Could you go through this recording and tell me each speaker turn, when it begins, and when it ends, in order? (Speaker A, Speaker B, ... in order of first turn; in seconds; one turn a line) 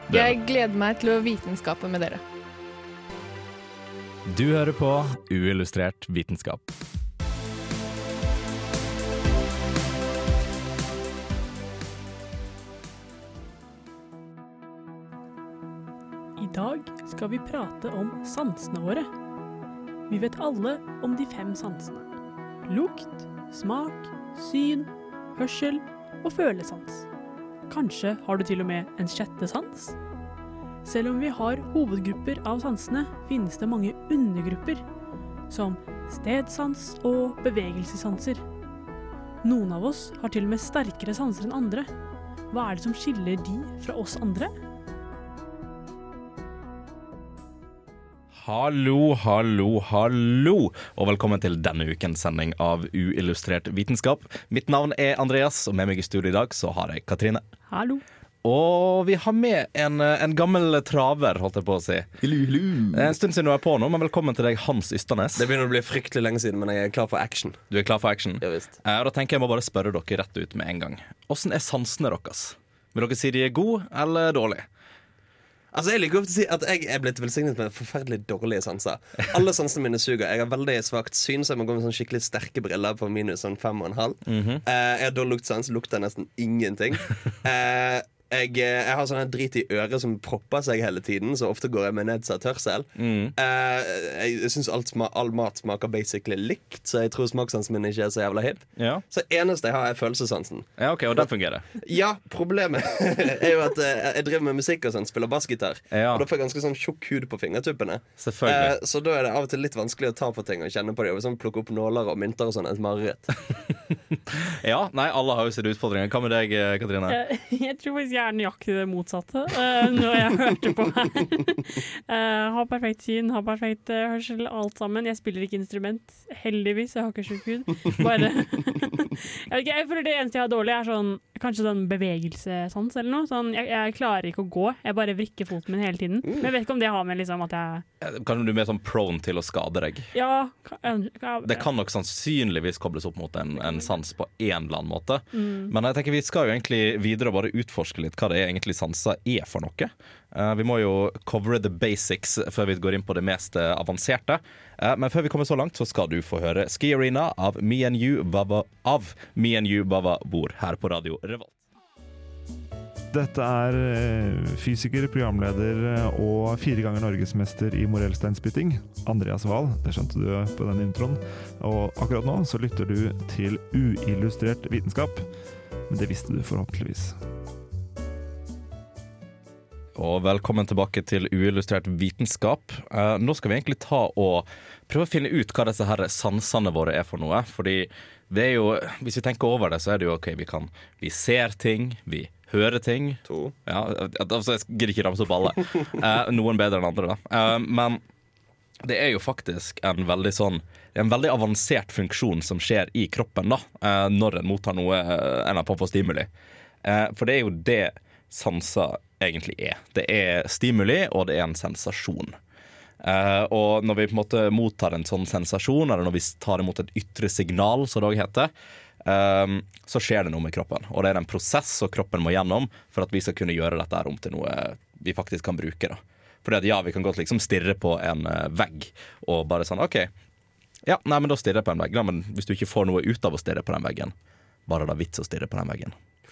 Speaker A: 0.1-2.2
Speaker B: 4.3-6.6
Speaker C: 16.4-19.1
Speaker C: 20.1-22.1
Speaker C: 22.6-27.1
Speaker C: 27.7-29.9
Speaker C: 30.8-34.8
Speaker C: 35.5-38.4
Speaker C: 39.4-41.9
Speaker C: 42.5-44.5
Speaker B: 48.3-57.4
Speaker C: 57.7-58.0
Speaker B: 58.4-62.2
Speaker B: 62.9-65.5
Speaker D: 65.4-67.6
Speaker B: 67.7-74.6
Speaker D: 68.4-68.7
Speaker D: 75.7-100.7
Speaker B: 84.3-84.6
Speaker B: 93.0-93.3
Speaker B: 98.8-99.0
Speaker B: 100.8-101.7
Speaker D: 101.8-113.4
Speaker B: 105.9-106.2
Speaker B: 108.2-108.7
Speaker B: 114.3-117.2
Speaker C: 117.1-137.8
Speaker B: 138.0-140.1
Speaker C: 140.1-141.7
Speaker B: 141.4-161.5
Speaker C: 143.6-143.9
Speaker C: 145.3-145.7
Speaker E: 163.1-175.2
Speaker E: 175.9-177.2
Speaker B: 179.9-198.0
Speaker D: 193.2-193.5
Speaker B: 198.8-206.3
Speaker B: 206.8-212.3
Speaker B: 213.0-218.5
Speaker B: 219.0-230.1
Speaker B: 230.8-234.1
Speaker B: 234.7-235.9